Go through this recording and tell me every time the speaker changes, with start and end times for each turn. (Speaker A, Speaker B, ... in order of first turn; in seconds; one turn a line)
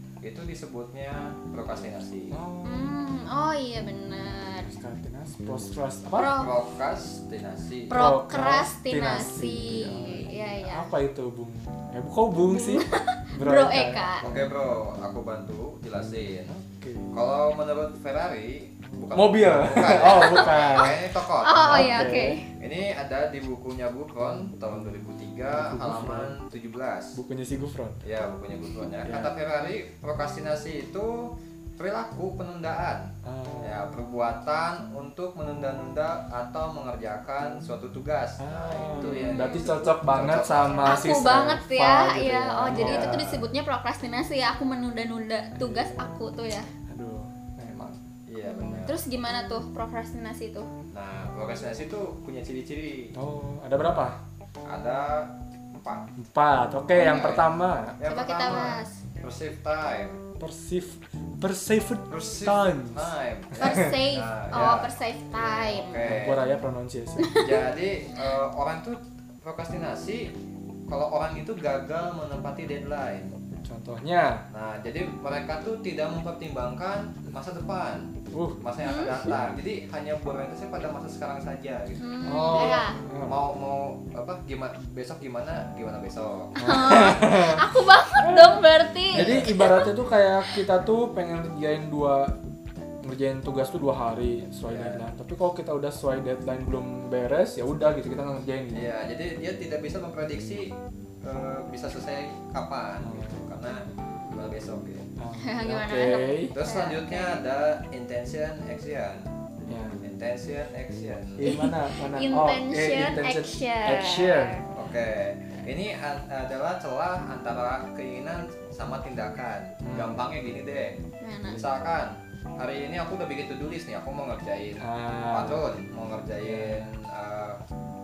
Speaker A: 0.2-2.4
Speaker B: 2.3-2.9
Speaker C: 2.6-4.7
Speaker B: 4.6-6.3
Speaker C: 6.2-6.5
Speaker A: 6.4-8.0
Speaker C: 7.9-10.9
Speaker B: 7.9-14.5
Speaker C: 12.5-14.2
Speaker A: 14.2-16.5
Speaker B: 16.4-17.1
Speaker A: 17.1-21.9
Speaker B: 19.1-21.0
Speaker C: 20.1-22.5
Speaker B: 21.6-22.4
Speaker A: 22.6-27.2
Speaker B: 25.5-26.3
Speaker B: 27.1-28.0
Speaker A: 28.0-33.1
Speaker B: 29.0-29.3
Speaker B: 33.2-33.8
Speaker A: 33.6-41.2
Speaker B: 38.4-43.3
Speaker C: 38.9-39.7
Speaker C: 40.7-46.7
Speaker A: 42.7-43.5
Speaker B: 45.5-46.0
Speaker B: 46.9-48.0
Speaker A: 48.3-49.0
Speaker C: 48.4-50.7
Speaker A: 50.9-53.1
Speaker B: 53.1-54.2
Speaker A: 54.7-56.1
Speaker B: 56.2-58.0
Speaker A: 56.9-60.2
Speaker C: 58.0-59.0
Speaker B: 60.4-63.9
Speaker A: 62.1-66.4
Speaker C: 63.6-66.1
Speaker B: 66.0-67.3
Speaker C: 67.2-67.6
Speaker A: 67.3-70.3
Speaker A: 70.9-73.3
Speaker B: 73.6-74.4
Speaker A: 74.5-86.9
Speaker B: 78.3-78.6
Speaker C: 78.8-79.2
Speaker C: 82.0-83.0
Speaker B: 82.2-83.4
Speaker C: 86.6-90.6
Speaker B: 86.6-88.6
Speaker B: 89.1-92.3
Speaker A: 89.2-89.5
Speaker B: 93.0-98.8
Speaker A: 94.7-95.1
Speaker A: 98.7-100.7
Speaker A: 101.2-105.1
Speaker B: 103.0-103.5
Speaker B: 105.2-106.5
Speaker C: 105.3-107.4
Speaker A: 106.5-109.3
Speaker B: 109.7-110.0
Speaker A: 110.0-111.5
Speaker B: 111.4-114.6
Speaker C: 111.4-114.7
Speaker A: 114.7-121.0
Speaker B: 119.8-120.2
Speaker C: 121.2-121.6
Speaker A: 121.5-127.6
Speaker B: 124.8-125.7
Speaker B: 126.4-126.9